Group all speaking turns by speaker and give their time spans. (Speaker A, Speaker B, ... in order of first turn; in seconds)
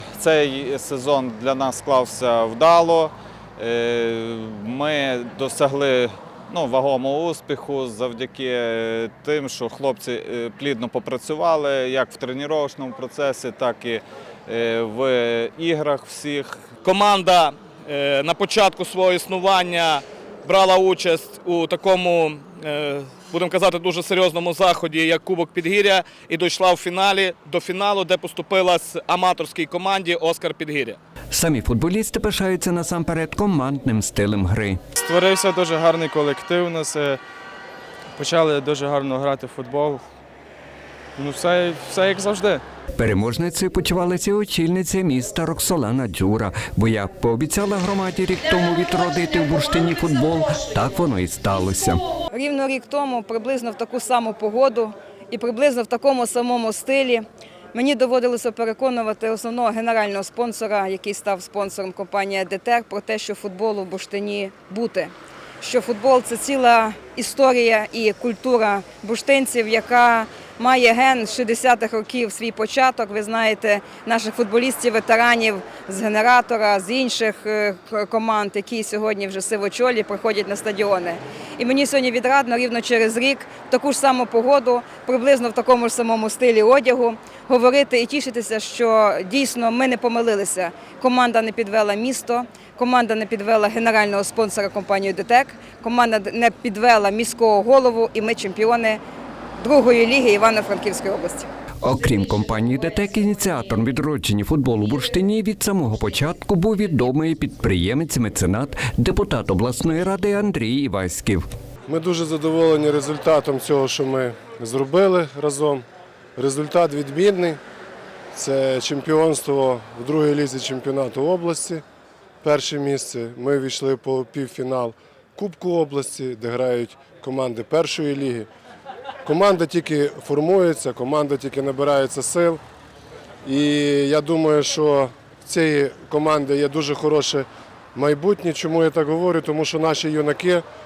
Speaker A: 0.1-16.6
Speaker B: 16.8-31.0
Speaker C: 31.3-34.8, 43.0-52.0, 101.8-111.4
Speaker D: 35.0-37.2, 38.1-40.0, 41.2-42.6
Speaker E: 52.3-99.0, 99.6-101.5
Speaker F: 111.9-115.8, 116.4-117.6, 118.3-121.8, 122.4-128.5, 129.2-132.6, 133.4-140.6